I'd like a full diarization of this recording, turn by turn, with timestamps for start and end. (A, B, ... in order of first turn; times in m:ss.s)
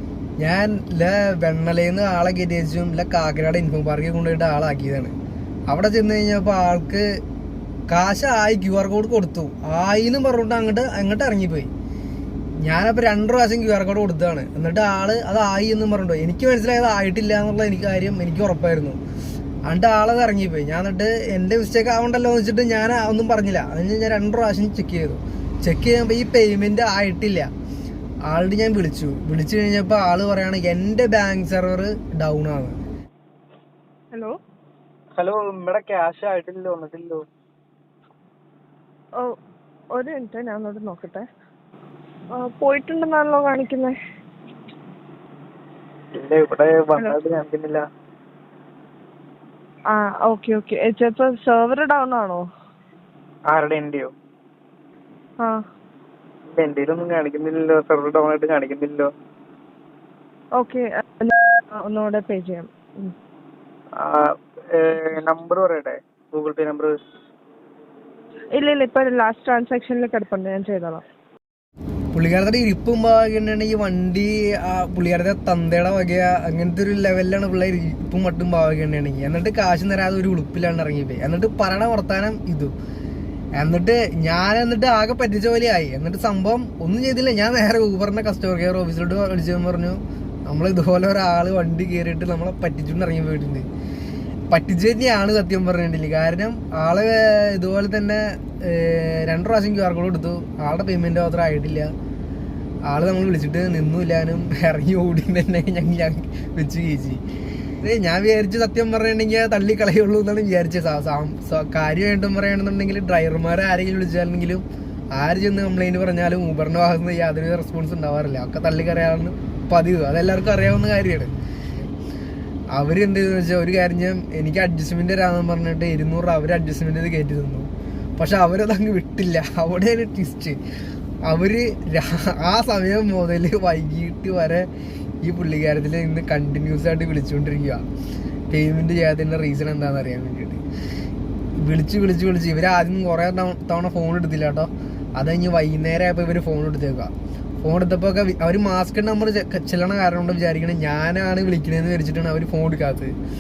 0:00.4-0:05.1 A
0:05.7-0:07.2 A
0:07.9-0:11.7 A
0:12.6-0:19.0 A
0:19.7-0:27.5 A
0:28.3-0:32.8 A
0:35.2-0:37.2 B
0:39.9-0:41.3 C
0:42.3-0:44.0 C
0:46.2-0:47.8 B
0:49.9-0:52.5 C
0:53.5-0:54.1 B
0:56.5-0:59.1 B
1:00.6-1:03.1 C
1:04.0-1:06.9 B
1:08.5-1:11.0 C
1:12.1-1:22.7 A
1:23.6-1:33.7 A
1:34.5-1:41.9 A
1:42.9-1:47.2 A
1:47.8-2:01.9 A
2:02.7-2:10.6 A
2:11.3-2:14.7 A
2:15.2-2:17.8 A
2:18.5-2:20.6 A
2:21.6-2:33.1 A